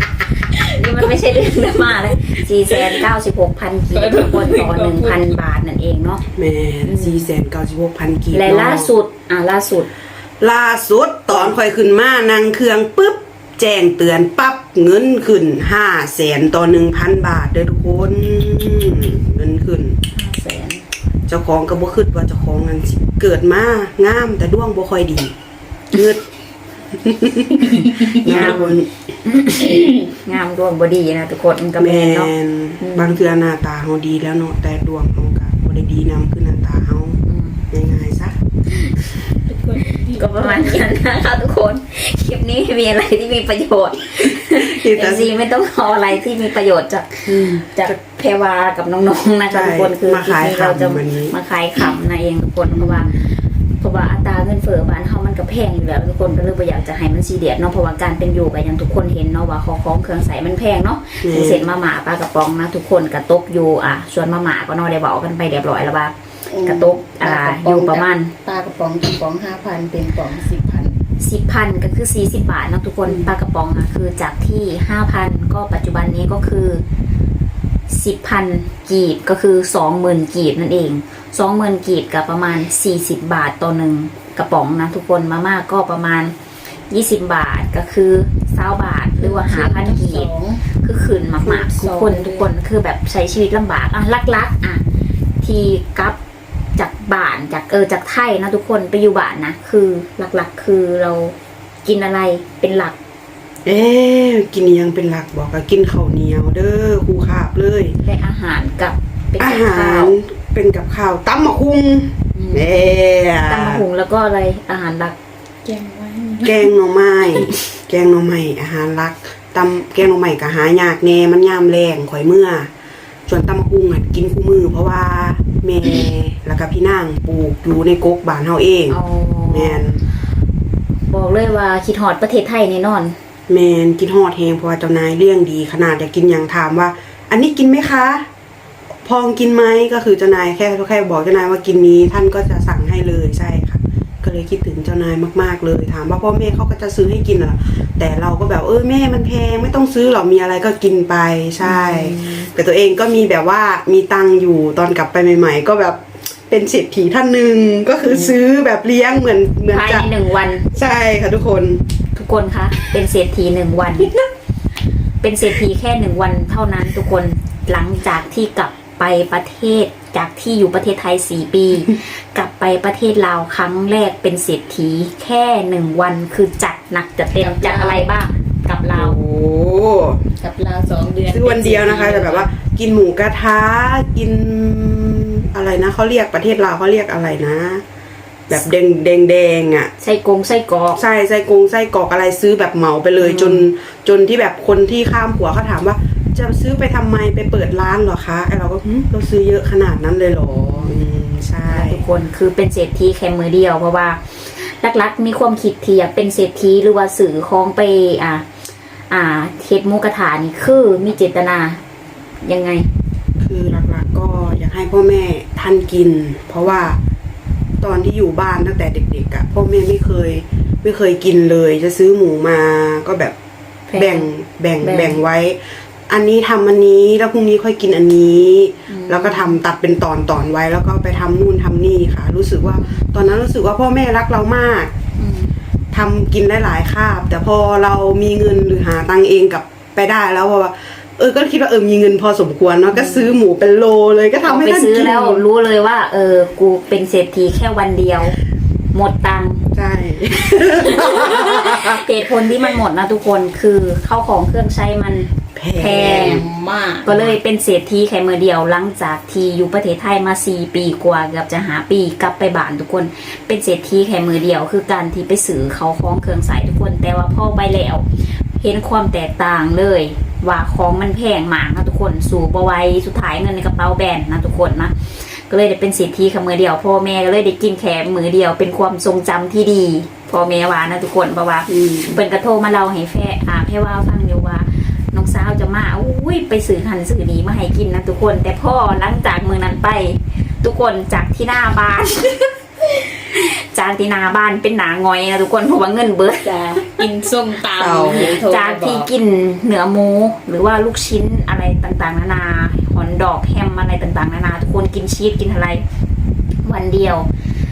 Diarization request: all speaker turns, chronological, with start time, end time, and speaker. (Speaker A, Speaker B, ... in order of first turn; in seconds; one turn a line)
Speaker A: 0.6-1.8
Speaker B: 0.7-6.2
Speaker A: 2.7-3.0
Speaker A: 3.9-5.4
Speaker C: 6.3-8.9
Speaker B: 6.9-7.3
Speaker B: 8.3-9.9
Speaker C: 10.4-20.0
Speaker B: 20.1-20.9
Speaker C: 21.3-25.3
Speaker C: 25.9-26.2
Speaker C: 27.0-28.9
Speaker B: 27.8-33.2
Speaker C: 31.8-38.4
Speaker B: 37.3-37.6
Speaker B: 38.7-39.0
Speaker A: 39.5-40.9
Speaker B: 40.1-68.3
Speaker C: 44.3-45.3
Speaker C: 47.3-47.9
Speaker C: 49.5-51.3
Speaker C: 52.7-53.3
Speaker C: 61.2-61.7
Speaker A: 66.5-71.0
Speaker B: 71.2-76.8
Speaker C: 73.1-73.3
Speaker B: 77.9-86.3
Speaker B: 86.9-94.8
Speaker A: 89.2-90.6
Speaker A: 91.4-92.5
Speaker B: 95.4-96.2
Speaker B: 96.8-103.0
Speaker C: 103.7-108.0
Speaker B: 108.0-110.2
Speaker C: 109.4-113.8
Speaker B: 112.3-112.7
Speaker B: 113.5-115.2
Speaker A: 115.7-116.7
Speaker C: 116.4-122.7
Speaker C: 123.3-130.0
Speaker B: 128.9-129.9
Speaker B: 131.1-133.2
Speaker C: 133.5-138.3
Speaker C: 139.0-160.1
Speaker B: 151.6-152.5
Speaker B: 159.7-160.7
Speaker C: 160.7-161.8
Speaker B: 162.2-164.1
Speaker B: 165.2-179.2
Speaker A: 177.4-178.1
Speaker C: 178.9-180.2
Speaker A: 180.4-182.5
Speaker C: 181.3-187.8
Speaker C: 188.5-189.9
Speaker B: 190.0-191.0
Speaker C: 191.0-202.0
Speaker B: 193.2-193.7
Speaker B: 200.7-201.0
Speaker B: 201.7-208.5
Speaker B: 209.1-211.8
Speaker B: 212.4-212.9
Speaker C: 213.4-217.0
Speaker B: 216.7-216.9
Speaker C: 217.8-223.3
Speaker A: 223.9-224.3
Speaker C: 223.9-234.9
Speaker A: 224.8-225.2
Speaker B: 228.9-229.6
Speaker B: 232.7-233.1
Speaker B: 235.2-235.5
Speaker C: 235.9-245.4
Speaker B: 242.9-243.3
Speaker B: 244.4-248.4
Speaker B: 248.9-249.7
Speaker C: 249.7-252.1
Speaker B: 250.6-256.4
Speaker C: 255.6-256.4
Speaker A: 256.0-257.3
Speaker B: 257.1-292.5
Speaker C: 281.7-282.2
Speaker B: 293.2-297.1
Speaker A: 296.4-299.1
Speaker C: 297.8-298.4
Speaker B: 298.1-305.8
Speaker B: 306.6-307.3